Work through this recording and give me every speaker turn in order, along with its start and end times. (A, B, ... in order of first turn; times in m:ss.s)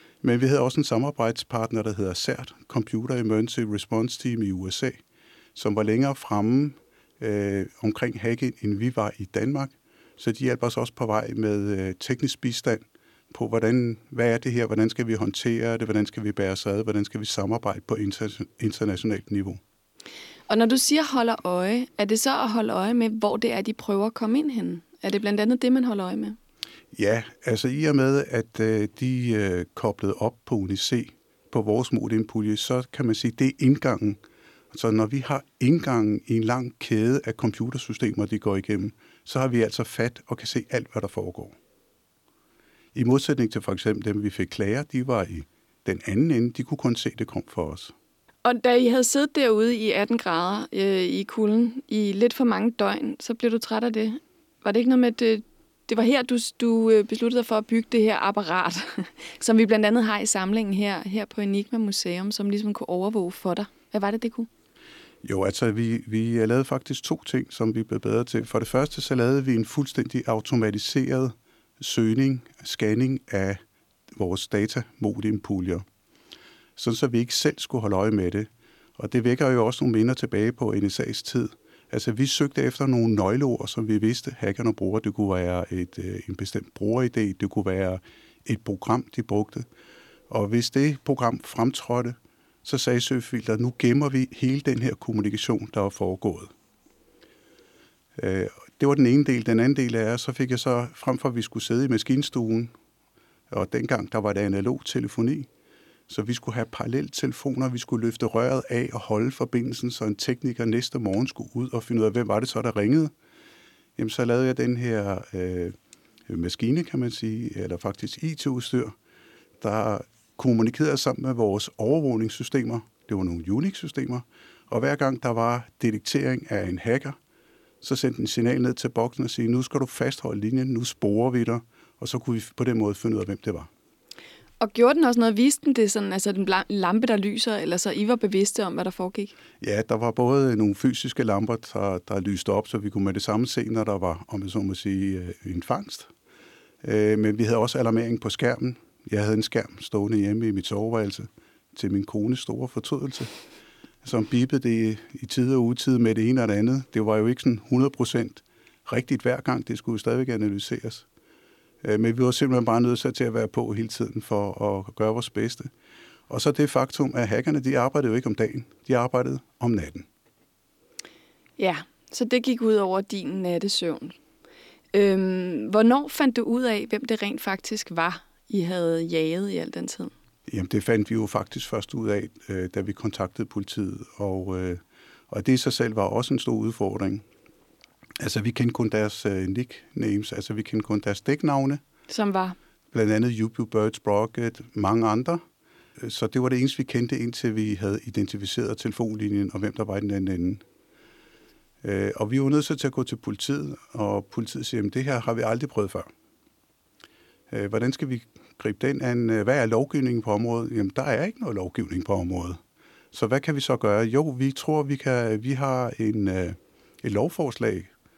0:00.2-0:05.0 A
0:05.6-0:19.6 A
0:20.5-0:26.4 B
0:26.9-0:41.6 A
0:43.0-0:48.0 A
0:48.4-1:04.5 B
1:05.2-1:13.6 A
1:14.1-1:15.9 A
1:16.8-1:29.7 A
1:30.3-1:36.5 A
1:38.2-1:42.7 A
1:43.5-1:45.5 A
1:46.1-1:53.1 A
1:54.0-1:59.0 A
1:59.6-2:07.2 A
2:07.8-2:13.7 A
2:14.6-2:19.3 B
2:19.6-2:26.1 A
2:26.8-2:33.4 A
2:34.0-2:41.0 A
2:41.8-2:45.7 A
2:46.3-2:50.1 A
2:51.6-2:54.2 B
2:54.9-3:00.1 B
3:00.5-3:07.2 A
3:08.2-3:11.8 A
3:12.1-3:12.6 B
3:12.9-3:15.4 A
3:16.0-3:20.6 A
3:21.8-3:26.1 A
3:27.5-3:32.6 A
3:33.1-3:37.9 A